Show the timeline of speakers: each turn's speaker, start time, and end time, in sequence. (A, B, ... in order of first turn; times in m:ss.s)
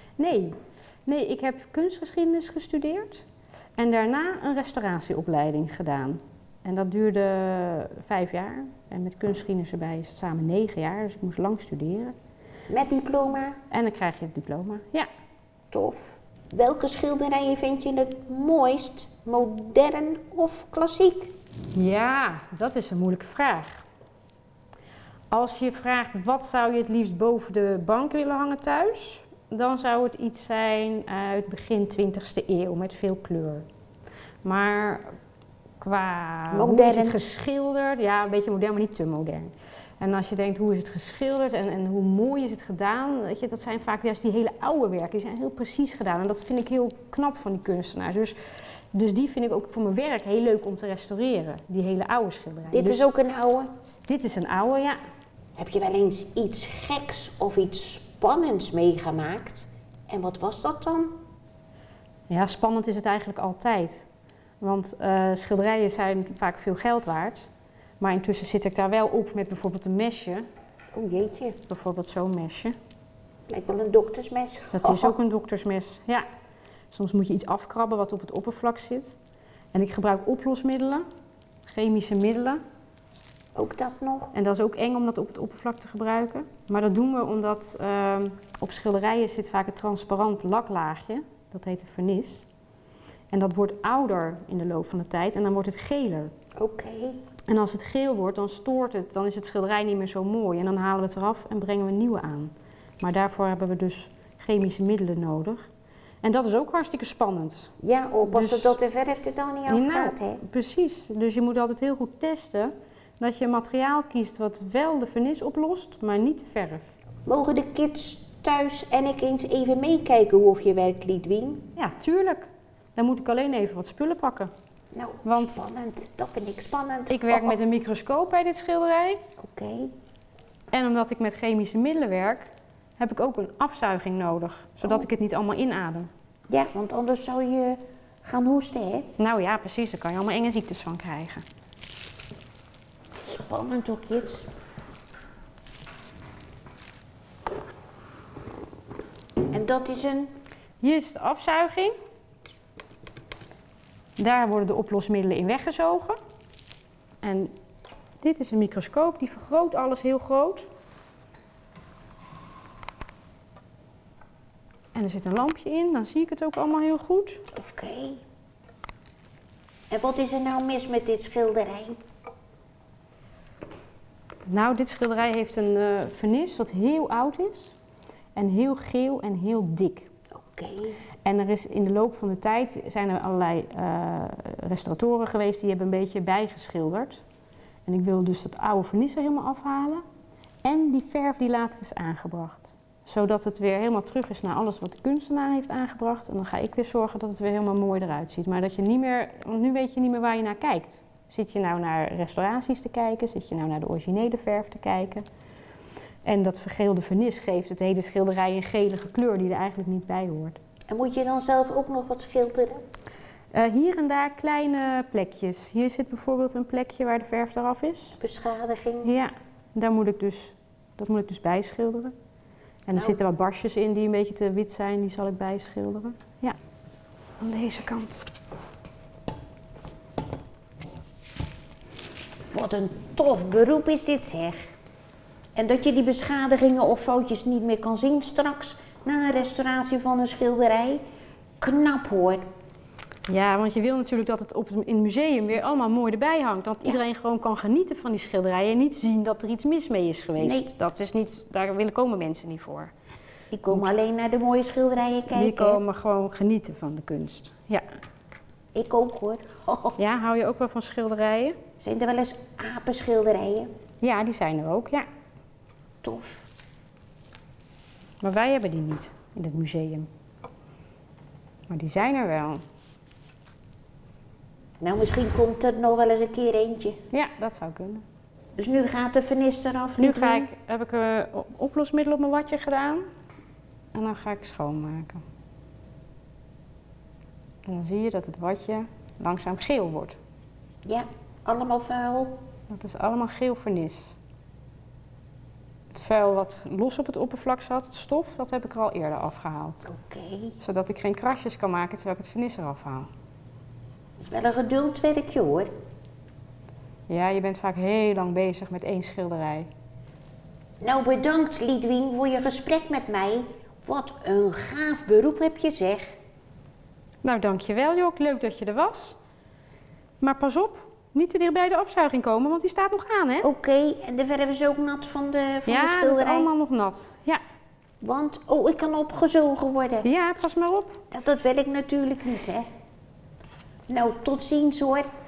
0:00.2-0:03.2 A
0:03.8-0:12.1 A
0:12.7-0:13.6 B
0:13.7-0:15.1 A
0:15.7-0:21.3 B
0:21.8-0:23.9 A
0:25.3-0:33.7 A
0:34.4-0:35.1 A
0:35.8-0:48.4 A
0:36.5-0:37.2 B
0:48.9-0:53.1 A
0:52.7-0:53.7 B
0:54.1-0:55.0 A
0:55.6-1:01.2 B
1:02.3-1:04.1 A
1:04.6-1:07.5 A
1:08.0-1:10.4 A
1:10.9-1:11.6 B
1:11.7-1:12.8 A
1:13.5-1:15.2 B
1:14.7-1:16.2 A
1:16.9-1:19.2 A
1:19.7-1:21.0 A
1:21.7-1:22.6 A
1:23.6-1:24.3 B
1:24.3-1:32.5 A
1:33.3-1:36.3 A
1:36.6-1:37.2 B
1:37.5-1:45.7 A
1:46.2-1:47.7 A
1:47.8-1:50.4 B
1:48.2-1:48.8 A
1:49.7-1:56.9 A
1:57.2-2:01.6 B
2:01.8-2:04.5 A
2:04.9-2:07.6 B
2:05.2-2:05.6 A
2:07.1-2:09.2 A
2:09.4-2:09.9 B
2:10.7-2:16.1 A
2:16.5-2:19.1 B
2:19.2-2:21.4 A
2:23.2-2:24.5 B
2:29.5-2:30.3 B
2:30.8-2:31.9 A
2:34.2-2:36.2 A
2:37.2-2:37.5 A
2:38.2-2:40.7 A
2:45.0-2:47.4 A
2:47.6-2:48.2 B
2:49.9-2:52.0 B
2:54.5-2:57.8 A
2:58.4-3:00.1 A
3:00.4-3:01.0 B
3:01.2-3:07.2 A
3:07.9-3:10.0 A
3:10.6-3:25.2 A
3:26.2-3:30.6 A
3:30.9-3:32.8 B
3:33.5-3:38.2 A
3:38.2-3:39.1 B
3:39.0-3:42.1 A
3:42.9-3:46.6 A
3:42.9-3:43.2 B
3:47.4-3:48.3 A
3:52.5-3:54.6 B
3:55.6-4:01.0 B
4:01.6-4:02.4 B
4:03.3-4:12.9 A
4:10.4-4:10.7 B
4:13.5-4:15.8 B
4:15.3-4:17.8 A
4:18.8-4:20.0 B
4:20.0-4:21.6 A
4:21.8-4:23.7 B
4:24.0-4:25.1 A
4:26.0-4:26.5 B
4:28.2-4:30.1 A
4:31.7-4:32.6 A
4:34.8-4:37.0 B
4:37.1-4:38.0 A
4:38.6-4:40.5 B
4:40.0-4:43.0 A
4:43.9-4:45.2 A
4:47.6-4:50.2 A
4:50.9-4:52.4 B
4:52.7-4:54.2 A
4:55.9-4:59.8 A
4:59.9-5:00.6 B
5:00.6-5:03.1 A
5:04.2-5:05.7 B
5:07.1-5:09.7 A
5:10.8-5:16.2 B
5:17.2-5:19.2 A
5:20.2-5:23.5 A
5:23.4-5:26.5 B
5:25.7-5:27.4 A
5:28.0-5:30.1 B
5:30.0-5:31.0 A
5:31.1-5:32.6 B
5:33.9-5:35.1 B